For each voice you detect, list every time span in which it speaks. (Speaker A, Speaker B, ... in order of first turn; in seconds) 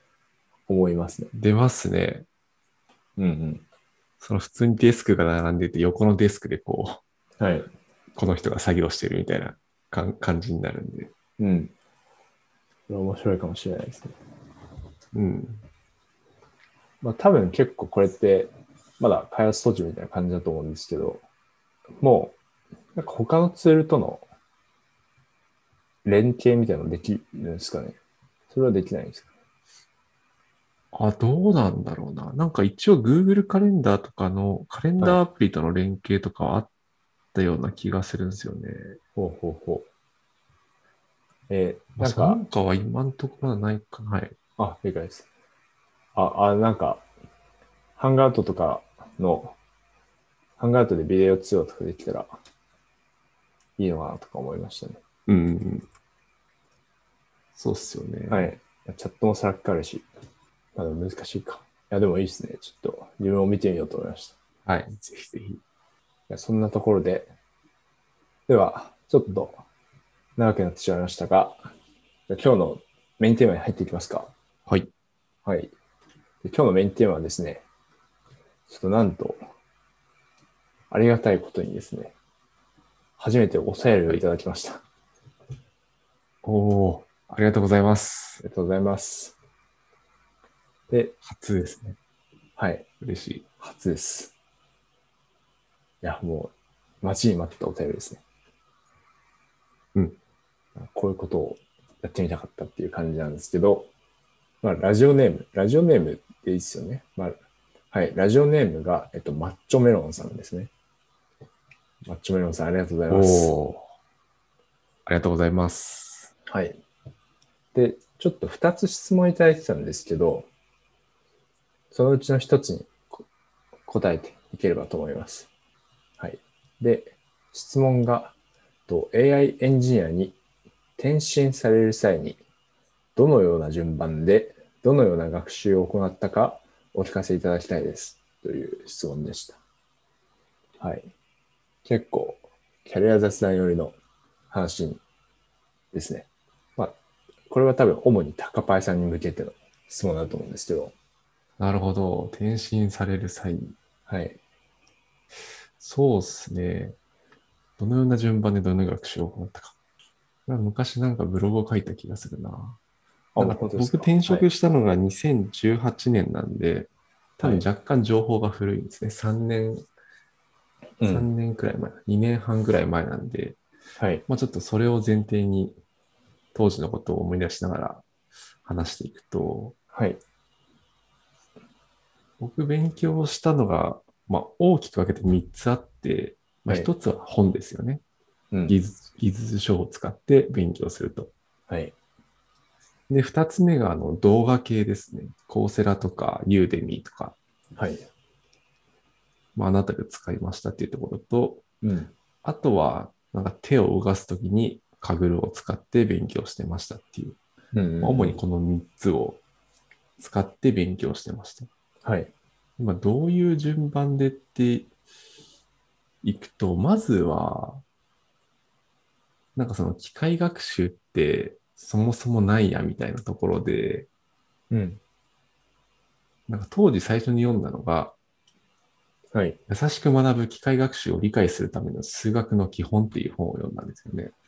Speaker A: 0.7-1.3, 3.2-3.6, 7.4-7.7, 11.4-11.7, 12.9-14.2, 17.0-21.2, 22.0-22.4, 22.9-24.2, 26.1-28.0, 28.5-29.3, 39.2-39.9, 41.5-42.4, 44.6-45.3, 46.1-47.0, 48.0-49.6, 50.6-52.3, 53.8-55.0, 58.3-60.1, 60.8-64.3, 66.3-67.3, 68.5-69.6, 70.4-71.6, 72.3-74.3, 75.5-75.7, 76.4-77.6, 78.7-79.4, 80.9-82.2, 83.2-84.8, 88.4-89.4, 92.6-92.9, 93.6-94.3, 96.0-98.2, 100.8-103.9, 104.6-107.4, 107.9-110.7, 112.1-113.6, 116.5-116.8, 117.7-120.5, 121.9-123.0, 123.9-125.5, 126.2-128.3, 128.9-130.4, 131.0-132.4, 133.2-139.6, 140.8-141.1, 141.8-144.0, 144.5-145.0, 145.9-147.0, 147.5-150.9, 154.1-154.4, 163.3-164.5, 171.0-171.3, 174.0-174.2, 179.9-180.2, 188.5-188.8, 191.7-191.9, 197.8-198.1, 201.8-202.1, 207.7-208.4, 212.0-212.3, 224.7-225.0, 229.3-229.6
Speaker B: 1.3-2.3, 4.2-7.0, 8.2-11.1, 15.1-15.6, 30.9-36.7, 37.3-39.0, 42.0-44.4, 55.3-55.9, 57.5-58.5, 64.7-65.6, 86.4-88.4, 91.2-92.0, 93.0-93.5, 113.1-113.8, 115.1-116.3, 151.6-153.8, 155.8-157.0, 157.8-159.8, 160.5-162.8, 163.4-169.8, 171.1-173.6, 174.3-175.8, 176.5-178.0, 178.7-179.8, 182.4-188.0, 188.7-191.3, 193.1-197.4, 199.6-201.6, 202.4-207.4, 208.0-209.4, 210.2-211.7, 212.8-214.9, 216.2-217.8, 219.6-224.1, 226.5-228.2, 229.7-234.3